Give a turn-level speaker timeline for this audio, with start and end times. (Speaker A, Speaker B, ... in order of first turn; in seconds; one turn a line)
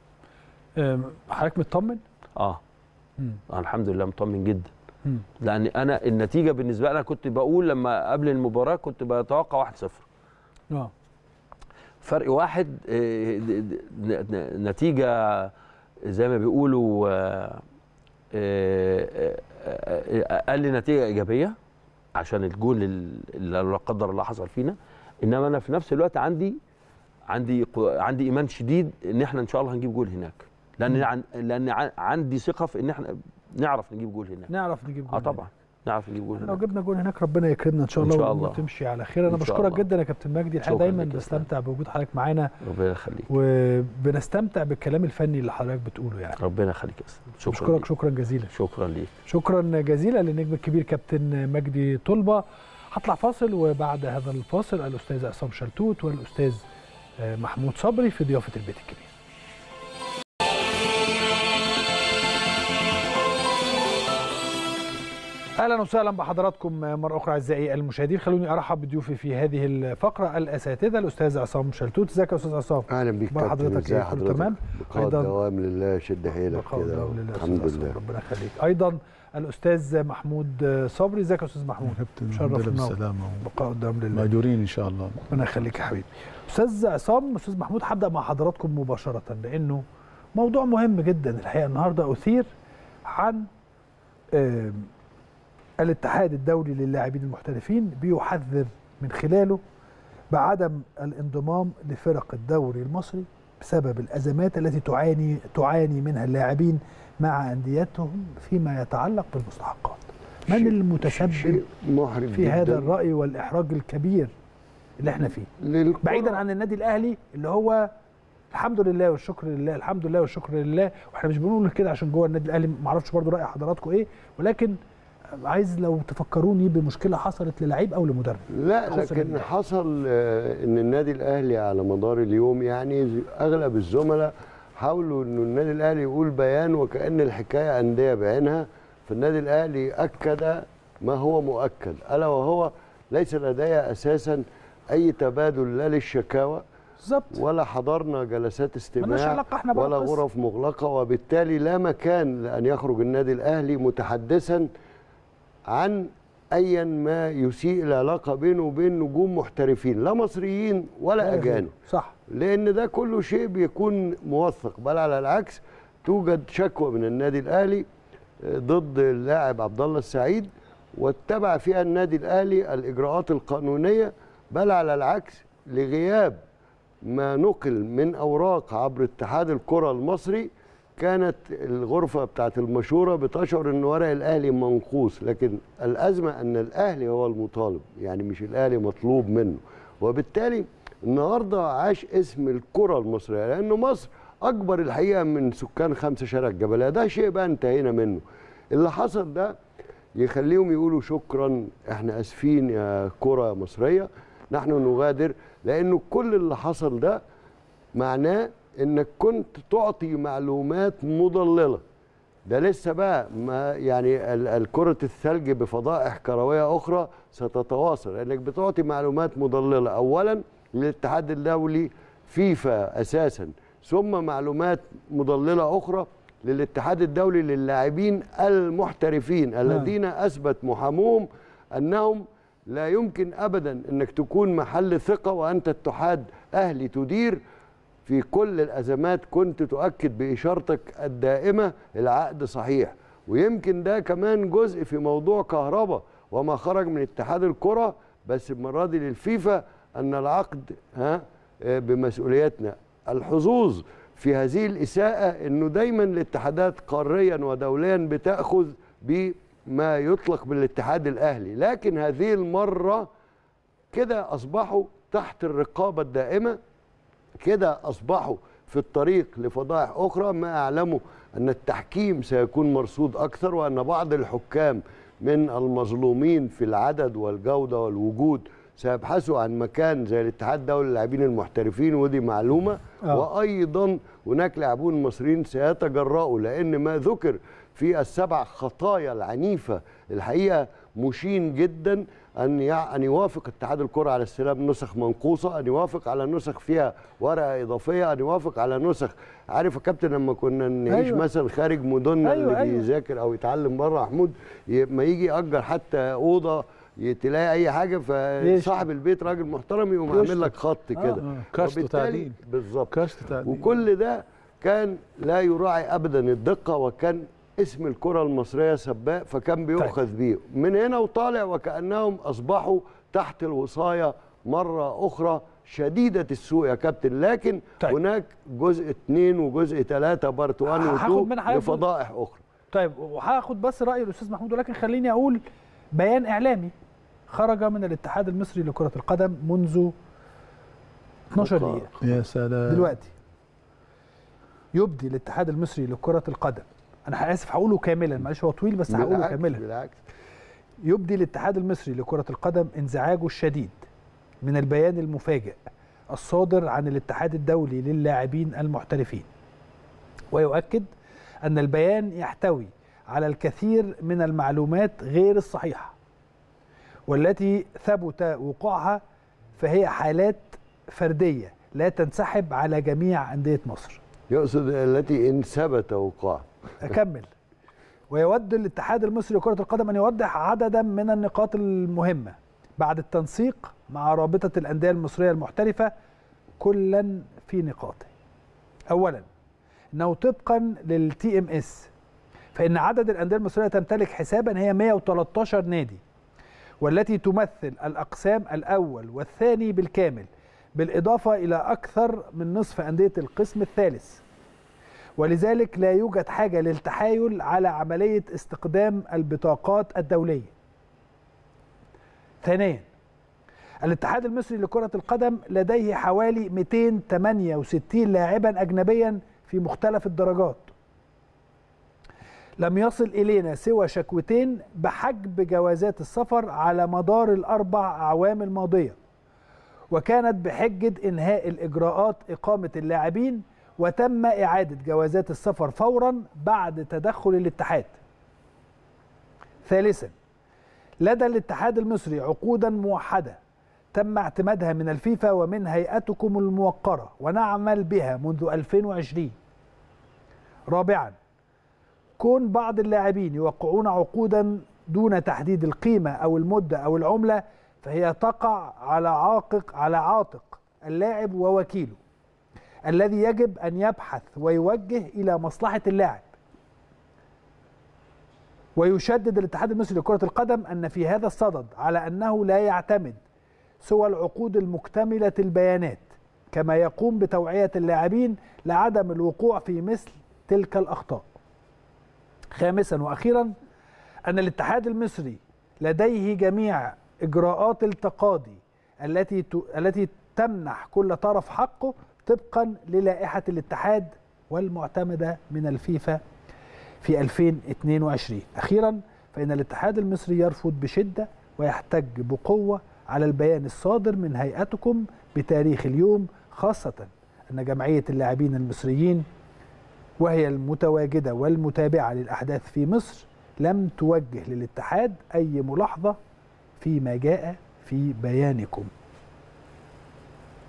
Speaker A: 0.8-2.0
Speaker B: 3.5-4.7
Speaker B: 5.4-10.0
Speaker B: 12.0-15.5
Speaker B: 16.1-17.6
Speaker B: 18.3-21.6
Speaker B: 22.2-26.6
Speaker B: 27.3-34.5
Speaker A: 34.5-35.4
Speaker B: 35.1-36.6
Speaker A: 36.4-42.5
Speaker B: 38.0-38.6
Speaker B: 39.3-39.8
Speaker B: 40.6-41.5
Speaker B: 42.6-43.3
Speaker A: 43.3-46.4
Speaker B: 46.4-47.9
Speaker A: 47.5-48.5
Speaker B: 48.5-49.1
Speaker A: 49.3-56.6
Speaker A: 57.2-59.1
Speaker A: 65.6-75.3
Speaker C: 72.9-78.0
Speaker A: 76.5-84.3
Speaker D: 81.8-83.5
Speaker D: 84.1-85.3
Speaker A: 85.3-89.8
Speaker A: 90.3-92.5
Speaker A: 93.1-93.5
Speaker A: 94.3-94.9
Speaker A: 95.8-99.6
Speaker A: 100.3-111.6
Speaker C: 110.5-112.9
Speaker A: 112.3-114.3
Speaker A: 115.0-115.5
Speaker C: 115.6-116.4
Speaker A: 116.0-117.9
Speaker A: 118.5-124.8
Speaker A: 125.4-129.4
Speaker C: 128.5-146.6
Speaker A: 147.0-147.4
Speaker C: 147.3-154.7
Speaker A: 149.0-150.2
Speaker C: 155.7-161.7
Speaker A: 161.2-162.1
Speaker C: 162.3-167.8
Speaker C: 168.4-176.4
Speaker C: 177.1-198.2
Speaker C: 198.7-199.5
Speaker C: 200.2-207.2
Speaker C: 208.0-211.8
Speaker C: 212.5-237.4
Speaker C: 238.1-263.1
Speaker C: 263.9-266.6
Speaker C: 267.4-332.4
Speaker A: 300.9-301.2
Speaker A: 302.2-302.8
Speaker A: 308.4-308.9
Speaker A: 310.1-311.2
Speaker D: 311.3-313.8
Speaker A: 330.7-331.8
Speaker A: 332.7-335.4
Speaker A: 335.9-336.7
Speaker A: 337.3-339.9
Speaker A: 341.3-341.9
Speaker C: 341.4-341.9
Speaker D: 342.0-342.9
Speaker A: 342.7-343.1
Speaker A: 344.8-349.6
Speaker C: 348.9-350.0
Speaker A: 350.9-353.8
Speaker A: 354.4-355.6
Speaker A: 356.1-359.3
Speaker A: 360.3-360.9
Speaker A: 361.4-365.9
Speaker A: 367.1-369.0
Speaker A: 369.6-374.0
Speaker C: 374.3-376.5
Speaker A: 376.8-377.3
Speaker A: 378.1-385.9
Speaker A: 386.6-388.1
Speaker A: 388.9-389.3
Speaker A: 389.9-391.9
Speaker A: 392.6-396.0
Speaker A: 396.8-404.2
Speaker A: 405.2-410.5
Speaker A: 412.4-412.9
Speaker A: 413.8-420.7
Speaker A: 422.6-429.0
Speaker A: 429.9-438.0
Speaker A: 439.6-440.1
Speaker A: 441.0-443.4
Speaker A: 443.9-449.3
Speaker A: 450.7-451.2
Speaker A: 452.2-462.0
Speaker A: 462.9-466.3
Speaker A: 468.8-473.2
Speaker A: 473.8-481.3
Speaker A: 482.5-483.5
Speaker A: 484.3-496.2
Speaker A: 497.0-509.3
Speaker A: 510.2-516.2
Speaker A: 516.8-518.9